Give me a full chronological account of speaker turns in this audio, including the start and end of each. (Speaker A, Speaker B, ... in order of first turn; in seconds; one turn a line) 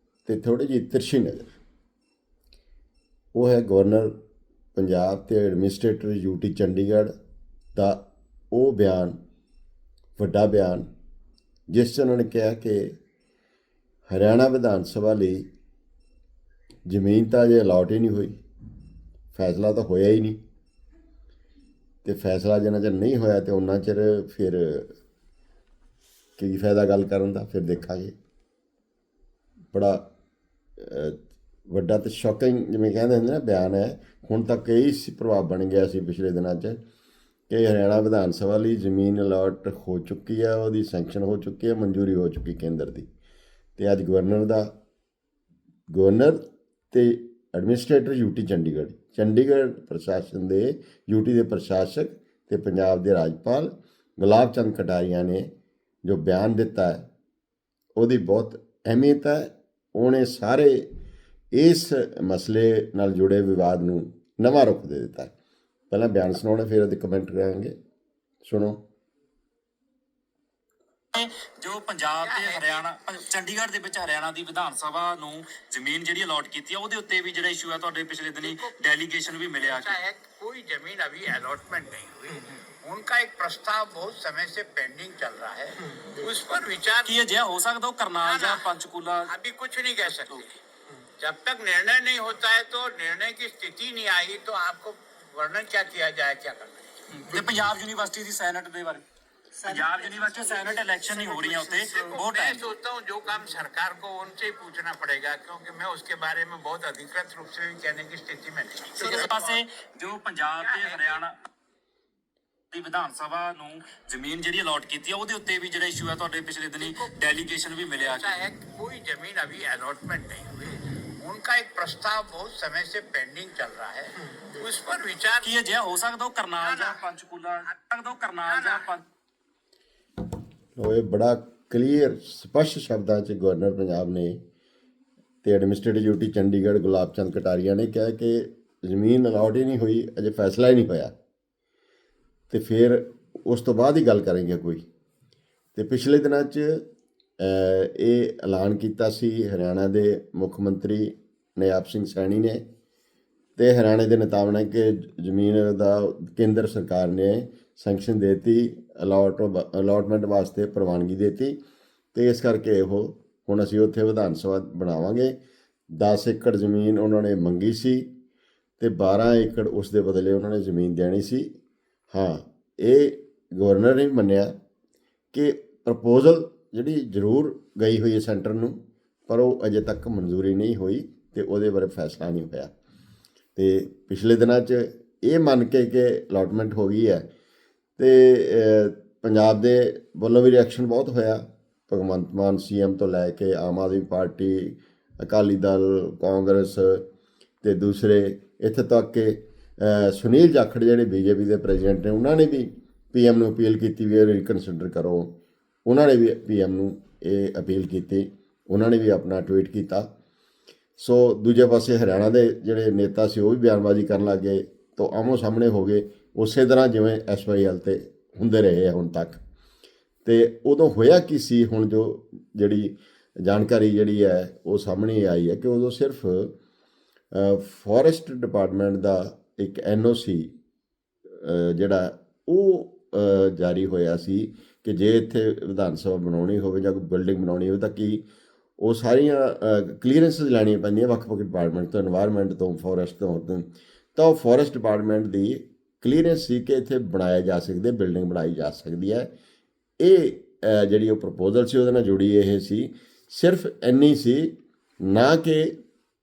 Speaker A: 0.2-1.5
Speaker A: 3.3-4.1
Speaker A: 4.8-7.1
Speaker A: 7.7-9.2
Speaker A: 10.2-10.9
Speaker A: 11.7-12.9
Speaker A: 14.1-15.4
Speaker A: 16.9-18.4
Speaker A: 19.3-20.4
Speaker A: 22.0-24.9
Speaker A: 26.4-28.1
Speaker A: 29.7-30.1
Speaker A: 30.8-36.8
Speaker A: 37.5-43.1
Speaker A: 43.8-44.7
Speaker A: 45.9-46.4
Speaker A: 46.9-55.5
Speaker A: 56.0-57.0
Speaker A: 58.0-60.8
Speaker A: 61.5-65.3
Speaker A: 65.9-67.7
Speaker A: 68.4-68.8
Speaker B: 71.1-79.9
Speaker C: 72.2-72.8
Speaker C: 78.4-78.7
Speaker C: 79.6-87.2
Speaker B: 87.0-89.3
Speaker C: 88.2-88.7
Speaker C: 89.3-90.6
Speaker C: 91.2-96.9
Speaker B: 97.1-99.0
Speaker B: 99.5-102.7
Speaker C: 101.0-109.6
Speaker B: 109.0-111.3
Speaker C: 110.6-111.2
Speaker B: 112.7-118.2
Speaker C: 116.8-117.1
Speaker C: 117.9-125.5
Speaker B: 125.4-129.0
Speaker C: 126.6-127.0
Speaker C: 128.5-128.9
Speaker A: 130.8-134.4
Speaker A: 135.4-141.1
Speaker A: 142.5-144.8
Speaker A: 145.7-146.8
Speaker A: 147.4-152.6
Speaker A: 153.6-161.5
Speaker A: 162.1-165.3
Speaker A: 166.0-168.0
Speaker A: 168.8-171.5
Speaker A: 172.1-174.5
Speaker A: 175.3-182.7
Speaker A: 183.6-187.2
Speaker A: 188.0-197.0
Speaker A: 197.6-205.3
Speaker A: 205.8-210.1
Speaker A: 211.0-219.4
Speaker A: 220.2-226.5
Speaker A: 227.3-230.5
Speaker A: 231.4-238.2
Speaker A: 238.8-249.3
Speaker A: 250.0-255.7